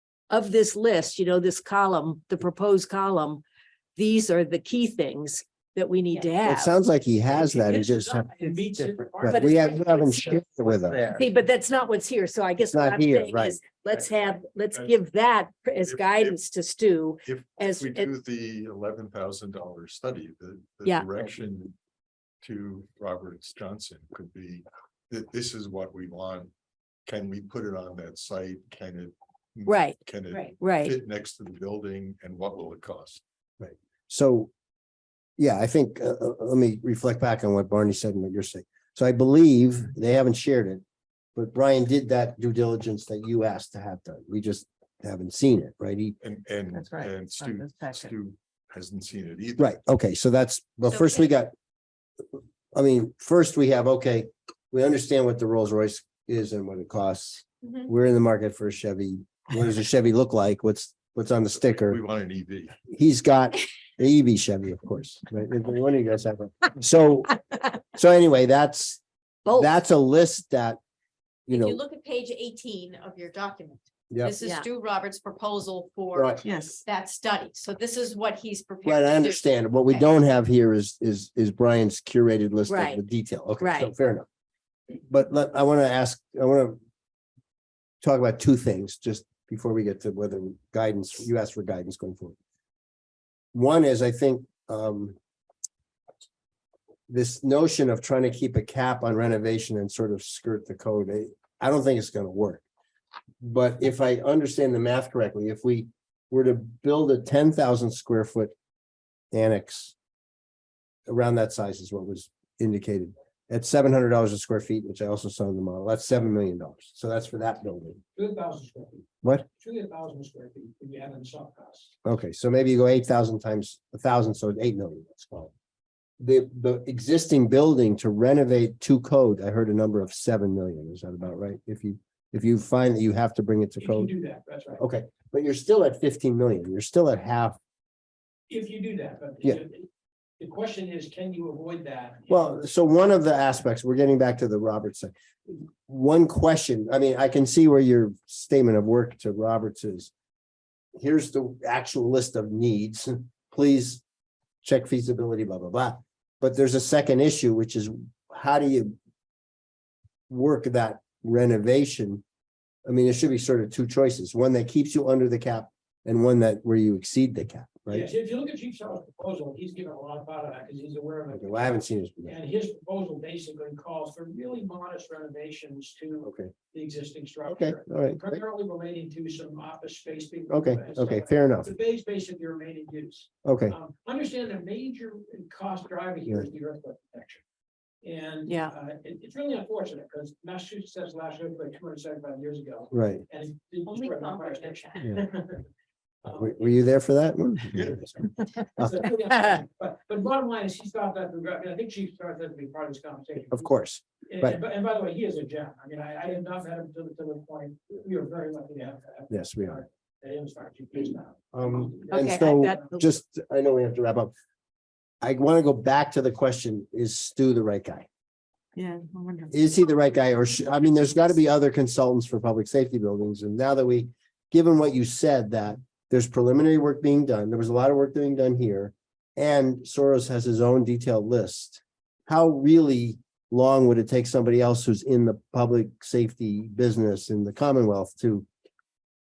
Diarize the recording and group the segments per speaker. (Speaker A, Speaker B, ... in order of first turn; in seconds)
Speaker A: 0.3-3.4, 4.0-6.8, 9.3-9.6, 11.1-18.1, 29.6-30.9, 74.4-74.7, 82.7-83.0, 83.6-83.9, 188.5-188.7, 212.1-212.8
Speaker B: 6.4-8.3, 9.2-11.2, 12.7-13.6, 33.6-34.5, 35.4-40.8, 41.4-46.1, 49.6-51.5, 52.7-62.0, 62.9-67.4, 67.9-70.8, 71.5-71.8, 76.1-76.4, 78.8-84.2, 85.1-86.8, 88.0-92.3, 93.5-95.2, 97.1-102.6, 103.4-108.5, 109.3-109.9, 111.1-118.0, 122.0-125.5, 126.2-134.1, 134.8-137.6, 142.3-150.1, 151.0-154.0, 154.6-158.9, 160.3-162.2, 162.8-168.1, 171.3-172.3, 176.2-176.5, 177.5-178.4, 180.5-181.7, 183.4-183.8, 192.9-193.2, 196.2-198.1, 198.8-199.1, 203.5-204.6, 209.3-209.8, 211.5-214.3, 215.2-218.1, 219.5-238.5
Speaker C: 7.3-10.7, 118.1-121.9, 133.8-134.8, 138.5-139.9, 140.4-142.4, 167.9-171.7, 172.2-187.4, 188.0-195.6, 196.2-196.6, 198.8-203.7, 204.2-213.0
Speaker D: 15.8-16.4, 17.2-21.7, 22.4-26.5, 27.1-33.2, 46.2-49.7, 61.6-62.7
Speaker E: 46.7-47.8, 76.5-76.8, 218.8-219.5
Speaker F: 50.8-51.3, 57.6-57.9, 71.5-80.2, 193.8-195.0